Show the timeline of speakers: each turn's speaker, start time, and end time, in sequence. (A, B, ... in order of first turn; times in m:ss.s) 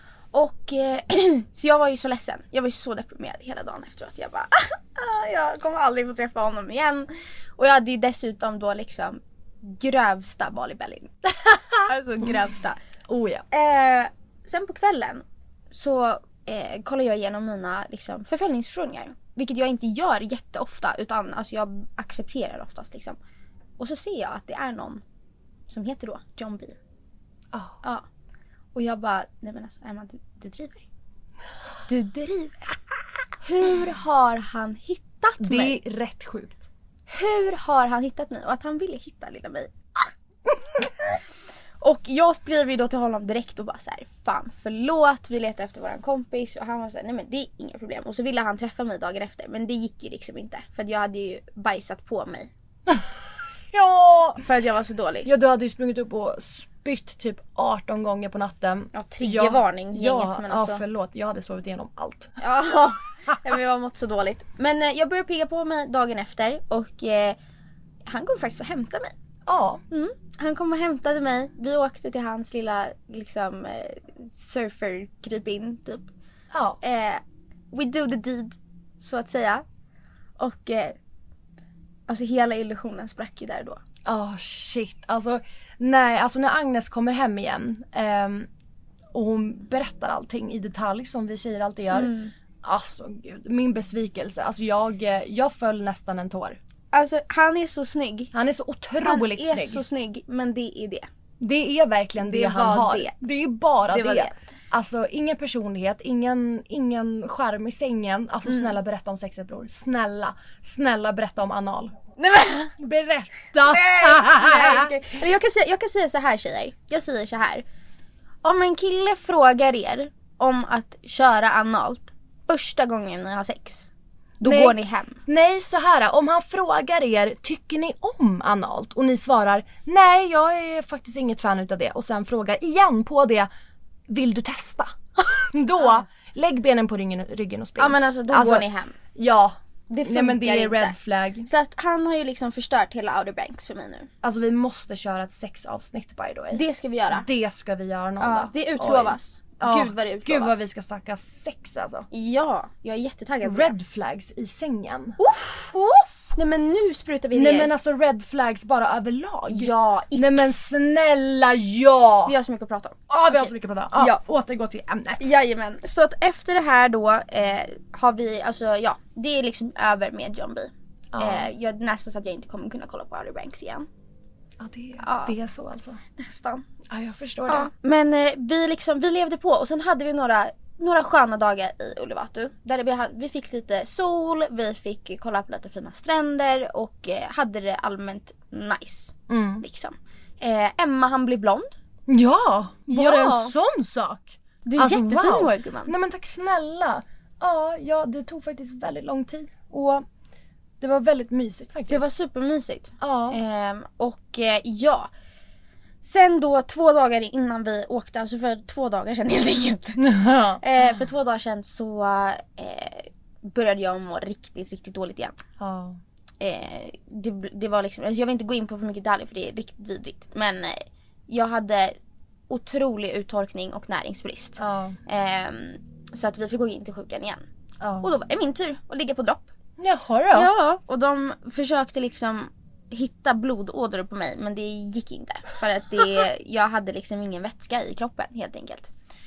0:00.3-0:11.1 A
0:11.5-0:11.8 B
0:11.9-0:12.8 A
0:13.1-0:13.4 B
0:13.5-0:23.2 A
0:23.8-0:25.0 A
0:25.7-0:26.8 A
0:28.8-0:30.8 A
0:31.9-0:32.5 A
0:33.4-0:35.8 A
0:35.4-0:36.6 B
0:37.1-0:40.1 A
0:41.8-0:52.5 A
0:53.7-0:54.4 B
0:54.4-0:55.3 A
0:55.2-1:02.3 B
0:58.9-1:00.8 A
1:02.4-1:07.4 A
1:08.1-1:09.1 A
1:09.5-1:09.8 B
1:09.9-1:16.1 A
1:16.5-1:16.8 B
1:16.8-1:19.6 A
1:20.4-1:21.0 A
1:22.1-1:23.8 A
1:24.0-1:28.5 B
1:29.1-1:32.1 B
1:31.9-1:32.3 A
1:32.6-1:36.6 B
1:36.9-1:38.3 A
1:38.3-1:39.8 B
1:39.0-1:41.1 A
1:41.4-1:51.9 B
1:42.2-1:43.2 A
1:43.9-1:44.4 A
1:48.5-1:48.7 A
1:52.2-1:52.7 A
1:52.8-1:54.9 B
1:53.6-1:57.6 A
1:58.4-2:03.9 A
2:04.4-2:05.2 A
2:04.4-2:13.5 B
2:14.1-2:21.5 B
2:17.8-2:19.0 A
2:19.9-2:24.1 A
2:24.2-2:32.1 B
2:26.5-2:27.3 A
2:28.2-2:30.6 A
2:32.1-2:33.7 A
2:33.4-2:35.2 B
2:35.2-2:37.7 A
2:37.3-2:42.3 B
2:39.5-2:40.6 A
2:42.3-2:44.2 A
2:43.1-2:45.2 B
2:45.2-2:53.9 A
2:51.1-2:51.5 B
2:54.6-2:56.0 B
2:55.0-2:55.4 A
2:56.2-2:56.6 A
2:56.9-2:57.7 B
2:57.5-3:11.8 A
3:09.3-3:09.6 B
3:12.1-3:20.0 B
3:12.9-3:13.5 A
3:14.6-3:15.9 A
3:20.8-3:22.1 B
3:21.9-3:25.1 A
3:23.0-3:23.4 B
3:26.0-3:30.0 A
3:30.0-3:31.0 B
3:30.6-3:35.4 A
3:35.6-3:36.0 B
3:36.4-3:42.0 A
3:42.5-3:47.4 A
3:44.6-3:45.0 B
3:47.8-3:48.1 B
3:48.0-3:49.5 A
3:49.8-3:50.5 B
3:50.3-3:58.9 A